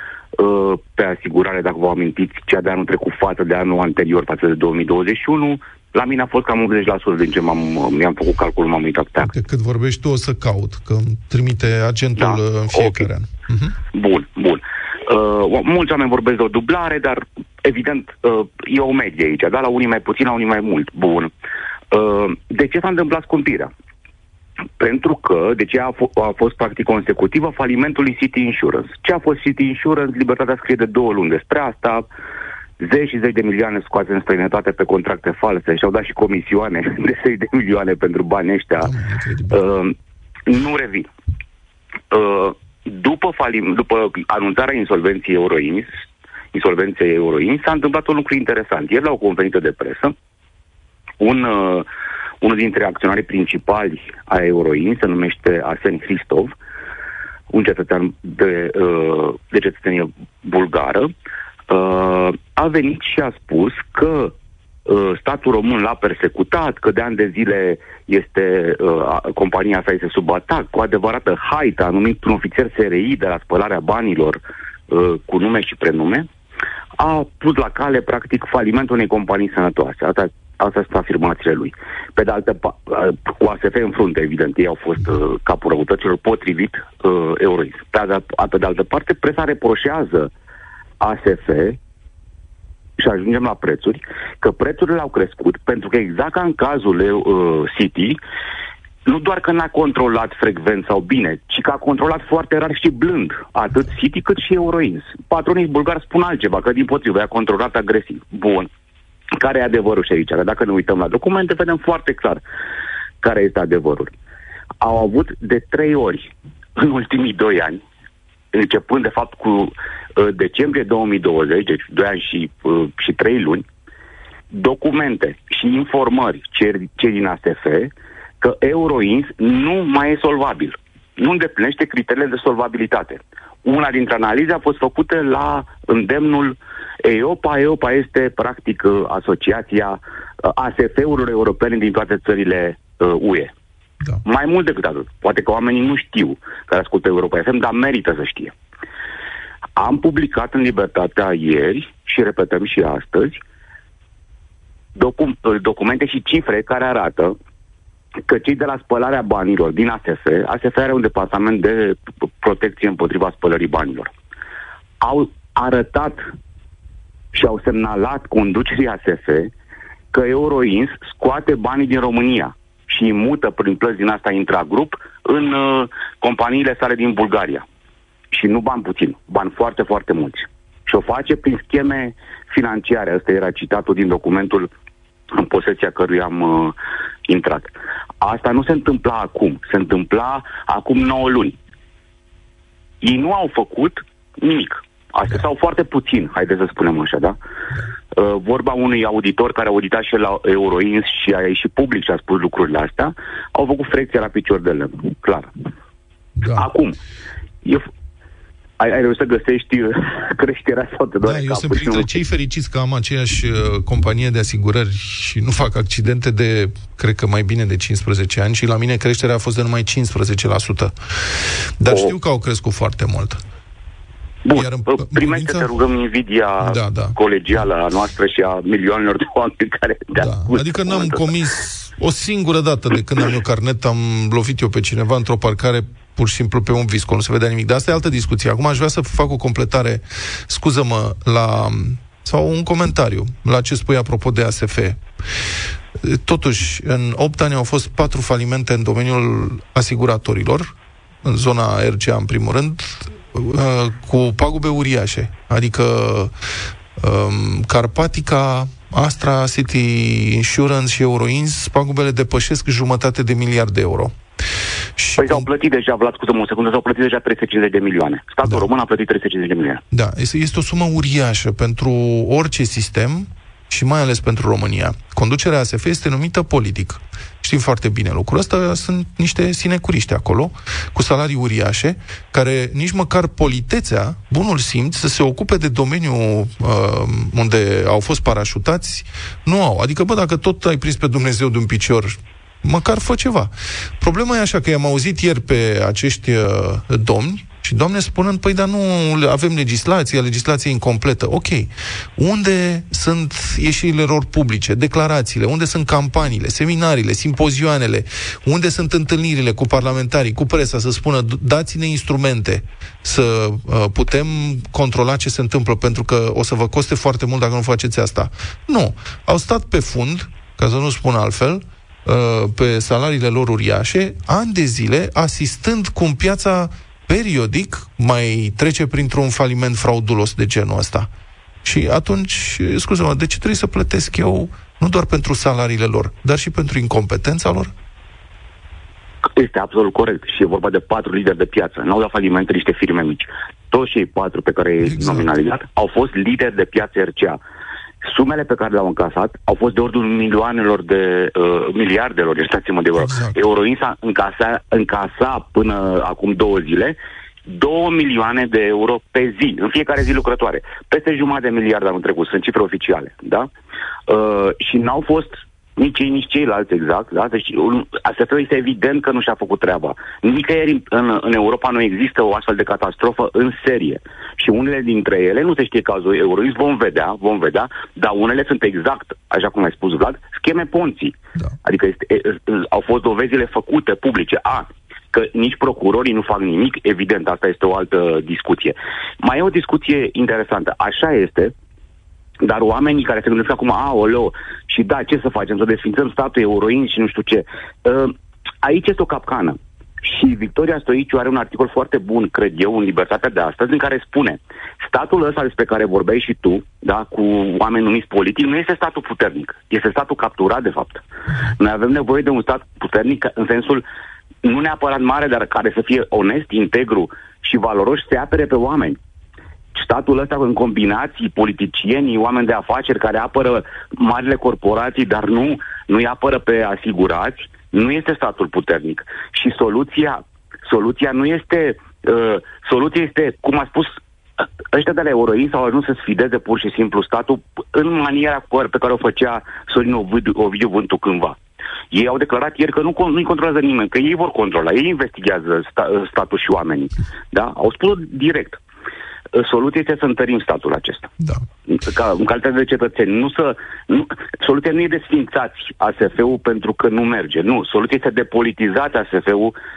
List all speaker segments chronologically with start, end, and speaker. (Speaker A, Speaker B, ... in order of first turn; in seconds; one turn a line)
Speaker A: 0.4-9.3
Speaker B: 9.2-13.7
Speaker A: 12.2-13.1
Speaker A: 13.9-21.3
Speaker A: 21.9-23.7
Speaker A: 24.8-32.1
Speaker A: 32.8-38.9
Speaker B: 38.8-39.6
Speaker A: 39.5-39.9
Speaker A: 40.5-41.1
Speaker A: 42.1-45.9
Speaker A: 46.5-50.1
Speaker A: 51.2-51.8
Speaker A: 52.4-56.5
Speaker A: 57.5-61.1
Speaker A: 61.7-64.3
Speaker A: 64.9-76.3
Speaker A: 77.0-90.3
Speaker A: 91.0-91.8
Speaker A: 93.0-98.2
Speaker A: 99.0-108.7
Speaker A: 109.3-112.4
Speaker A: 113.2-114.1
Speaker A: 114.8-117.8
Speaker A: 118.5-123.6
Speaker A: 124.5-143.5
Speaker A: 144.2-148.5
Speaker A: 149.8-153.4
Speaker A: 154.9-157.3
Speaker A: 158.3-164.1
Speaker A: 165.0-166.2
Speaker A: 167.3-169.5
Speaker A: 170.1-177.6
Speaker A: 178.3-184.7
Speaker A: 185.3-186.7
Speaker A: 187.3-191.6
Speaker A: 193.0-197.4
Speaker A: 198.2-205.5
Speaker B: 206.4-206.6
Speaker A: 206.5-206.9
Speaker A: 208.8-212.2
Speaker B: 211.2-223.4
Speaker A: 224.4-231.2
Speaker B: 224.6-225.7
Speaker B: 226.6-227.2
Speaker B: 230.2-245.0
Speaker B: 246.0-250.7
Speaker B: 251.2-256.3
Speaker B: 257.0-264.1
Speaker B: 265.0-265.4
Speaker A: 265.2-269.8
Speaker B: 269.9-331.1
Speaker B: 331.6-337.7
Speaker A: 339.2-347.4
Speaker B: 344.9-345.2
Speaker A: 348.0-363.5
Speaker B: 353.0-353.4
Speaker A: 364.1-391.5
Speaker A: 392.4-411.0
Speaker A: 411.6-413.8
Speaker A: 414.4-419.0
Speaker A: 419.7-433.9
Speaker A: 434.7-441.4
Speaker A: 441.9-448.6
Speaker A: 449.3-451.1
Speaker A: 451.7-459.5